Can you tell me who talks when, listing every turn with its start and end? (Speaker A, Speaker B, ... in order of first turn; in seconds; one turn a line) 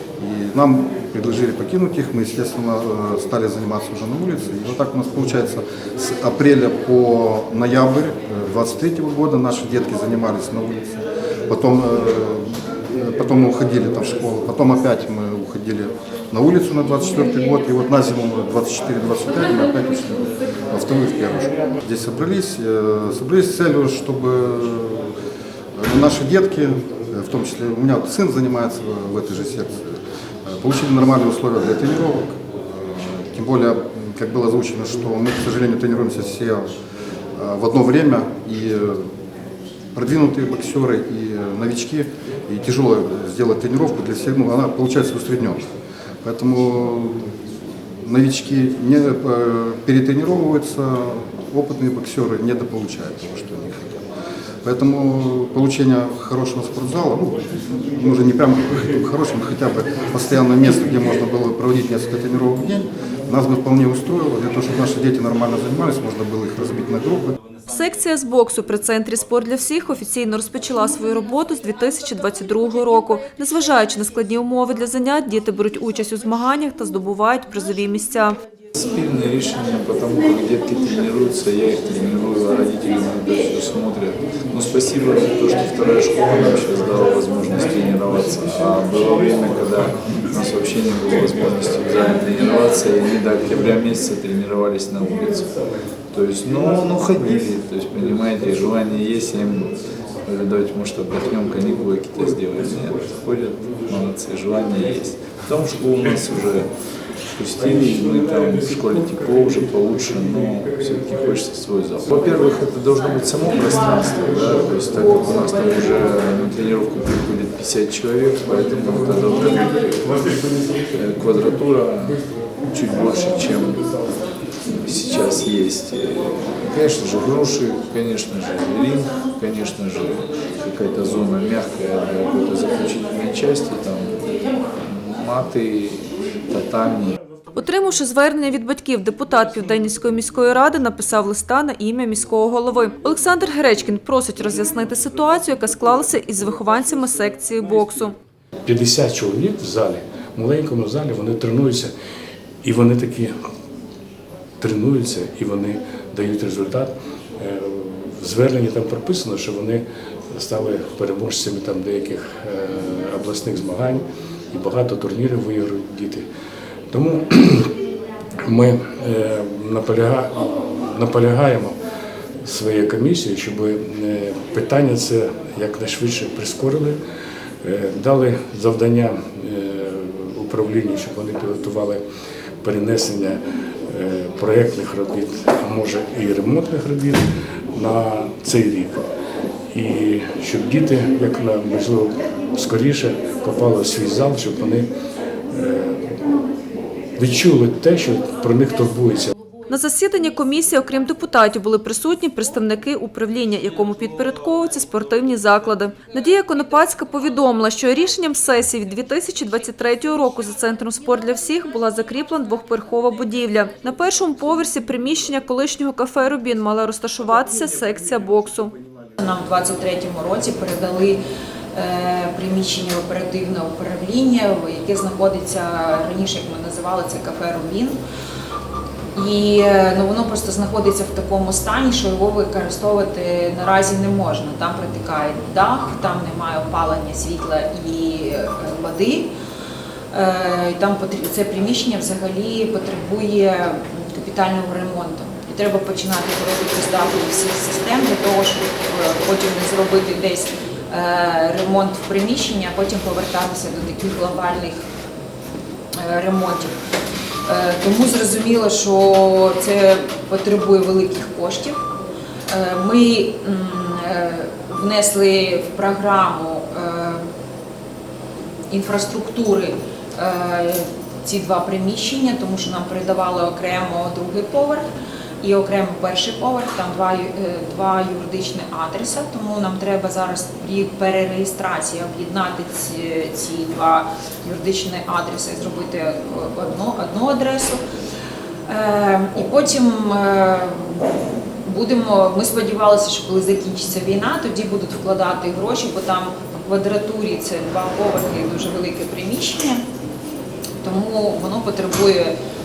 Speaker A: 0.2-12.4
Speaker A: 12.9-25.1
Speaker B: 17.4-17.7
Speaker B: 20.9-21.5
Speaker A: 25.8-36.6
Speaker A: 37.4-39.0
Speaker A: 39.9-45.6
Speaker A: 46.2-47.3
Speaker A: 48.0-54.0
Speaker A: 54.6-67.3
Speaker C: 67.7-78.4
Speaker D: 78.7-95.6
Speaker D: 96.1-99.7
Speaker D: 100.2-106.7
Speaker D: 107.3-123.9
Speaker D: 124.7-137.2
Speaker C: 137.5-148.2
Speaker E: 148.7-151.9
Speaker E: 152.6-153.3
Speaker E: 154.6-166.2
Speaker E: 166.9-167.7
Speaker E: 168.4-171.8
Speaker E: 172.4-177.0
Speaker E: 177.6-182.0
Speaker E: 182.6-189.0
Speaker E: 189.7-194.9
Speaker E: 195.5-196.0
Speaker E: 197.2-199.3
Speaker C: 199.7-218.7
Speaker A: 219.2-219.8
Speaker B: 219.5-221.0
Speaker B: 221.9-227.8
Speaker A: 226.6-227.3
Speaker B: 229.4-239.1
Speaker A: 236.7-237.1
Speaker A: 238.5-239.3
Speaker B: 240.2-254.7
Speaker A: 243.9-244.2
Speaker A: 245.2-245.5
Speaker A: 248.7-249.3
Speaker B: 256.1-256.6
Speaker B: 257.8-261.7
Speaker A: 260.1-260.4
Speaker B: 262.5-267.2
Speaker A: 262.7-263.8
Speaker A: 264.5-264.8
Speaker B: 268.8-269.6
Speaker B: 270.2-270.7
Speaker B: 271.4-274.8
Speaker B: 275.5-283.9
Speaker B: 284.6-287.7
Speaker A: 285.6-286.8
Speaker A: 288.7-289.4
Speaker B: 289.1-290.7
Speaker A: 290.8-291.5
Speaker B: 291.7-296.2
Speaker A: 293.6-294.0
Speaker A: 295.9-297.1
Speaker B: 296.8-299.7
Speaker B: 300.8-302.3